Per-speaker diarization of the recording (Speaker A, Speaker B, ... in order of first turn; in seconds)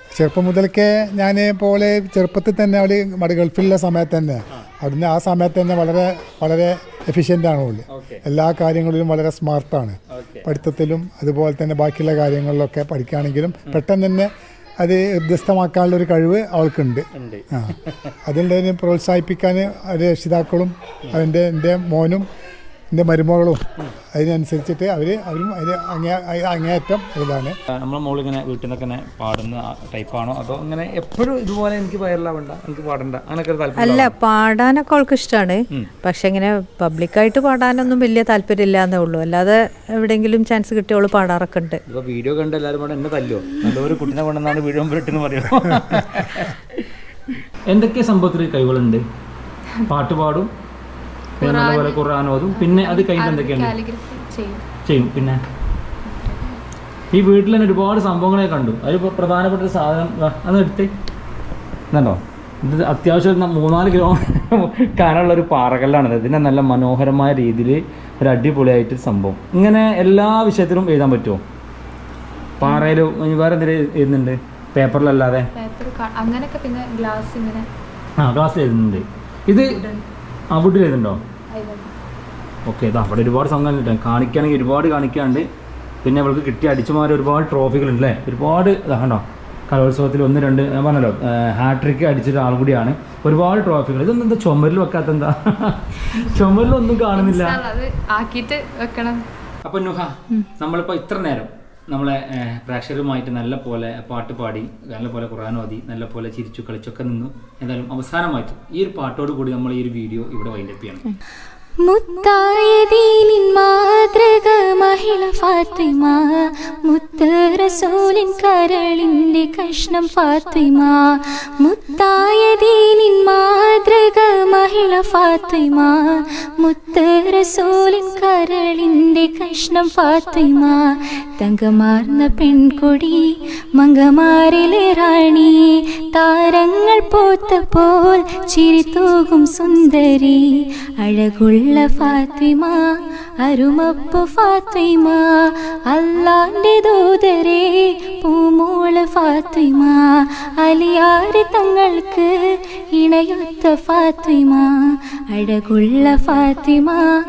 Speaker A: 0.1-14.3, 14.8-22.2, 22.9-27.5
Speaker B: 7.9-8.2, 10.1-10.5, 17.1-18.1, 27.8-34.1, 41.9-46.6, 47.7-49.0, 49.9-50.5, 51.4-53.7, 54.9-55.4, 57.1-60.9, 61.9-71.4, 72.6-75.5, 78.2-79.8, 80.5-81.2, 82.7-85.5, 86.0-97.6, 99.6-111.0
Speaker C: 33.8-41.8
Speaker D: 51.4-52.0, 52.5-54.6, 56.1-56.6, 72.6-73.0, 75.5-77.6, 79.6-80.0, 81.5-81.9, 97.1-99.2
Speaker E: 111.8-130.8, 131.4-133.2, 133.8-140.4, 141.0-142.9, 143.4-152.3, 152.9-157.1